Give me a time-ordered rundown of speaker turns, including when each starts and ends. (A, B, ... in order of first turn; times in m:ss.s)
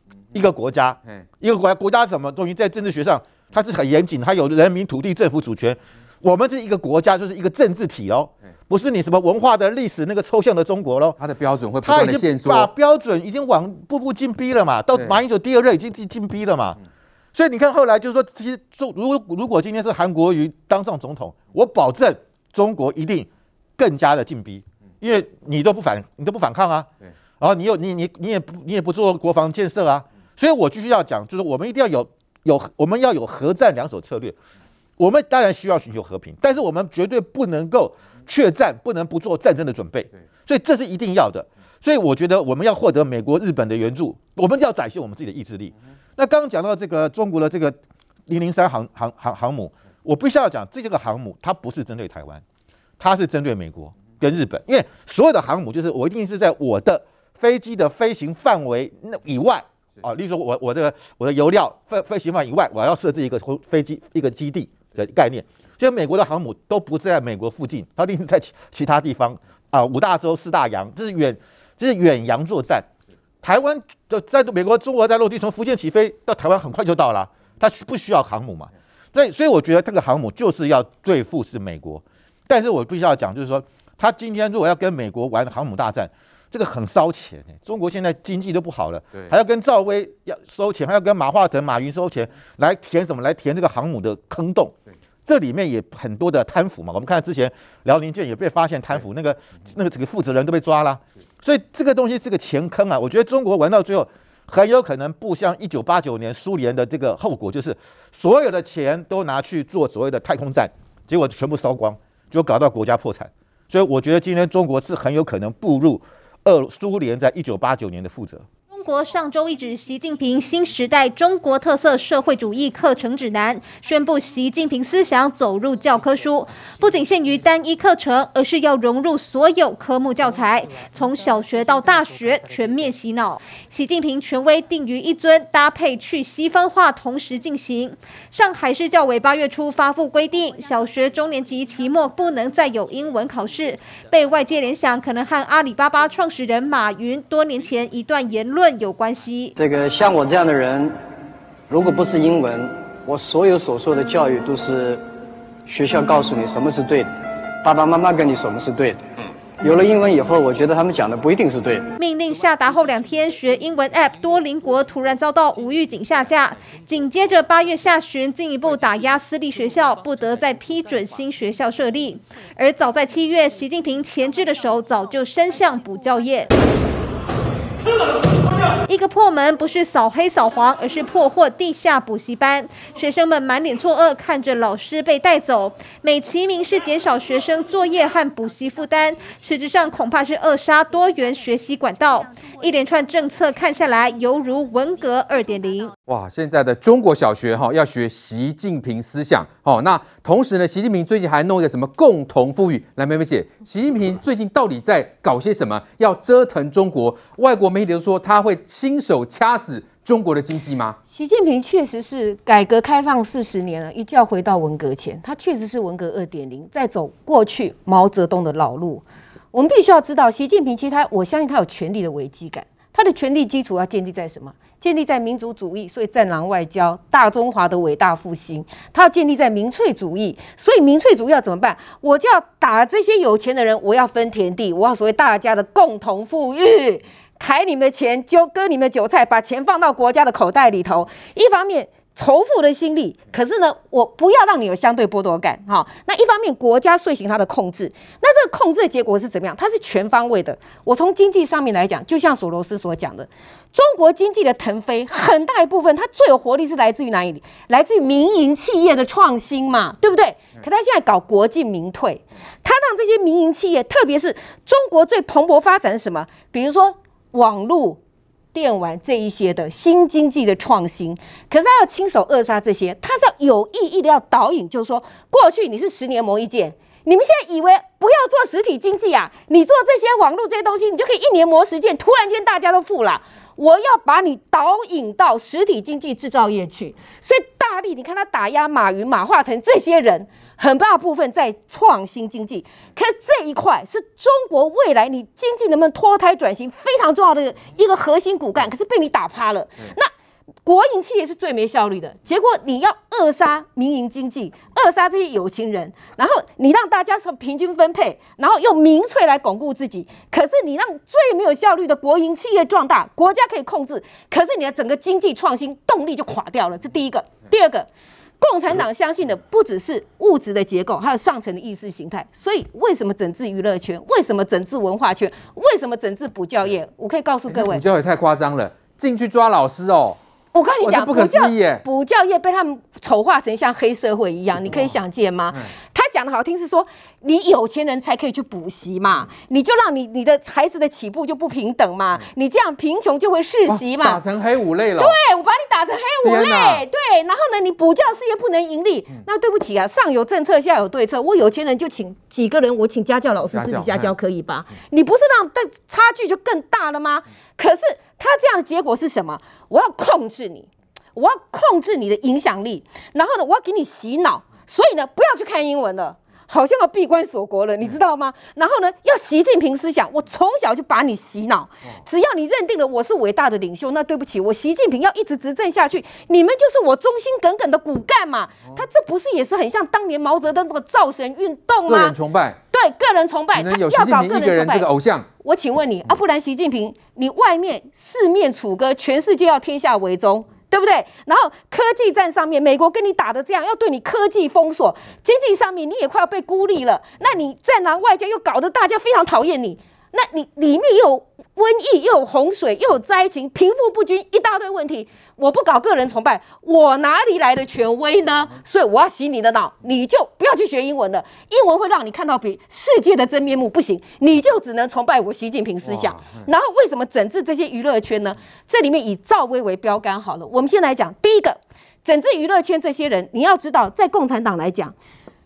0:00.3-0:11.2 A
0:11.2-0:12.7 B
0:11.8-0:16.8 A
0:17.3-0:26.9 A
0:27.4-0:34.4 A
0:35.0-0:47.8 A
0:48.3-0:52.4 A
0:53.0-1:12.9 A
1:13.4-1:34.7 A
1:35.3-1:58.5 A
1:58.7-2:29.5 C
2:29.6-2:31.0 D
2:31.7-2:35.1 D
2:35.7-2:37.1 D
2:37.6-2:41.9 D
2:42.0-2:56.6 C
2:58.9-3:15.9 C
3:16.1-3:31.0 B
3:31.1-4:28.0 E
4:28.5-5:00.1 E
5:00.6-5:17.9 E
5:18.4-5:27.8 E
5:27.5-5:30.2 B
5:30.5-5:44.2 E
5:30.8-5:31.8 B
5:34.7-5:35.0 B
5:43.7-5:45.2 B
5:45.0-6:22.2 E
5:46.2-5:46.8 B
5:53.5-5:54.1 B
6:21.9-6:22.6 B
6:22.7-6:24.9 E
6:23.5-6:25.3 B
6:25.4-7:05.0 E
6:55.8-6:56.4 B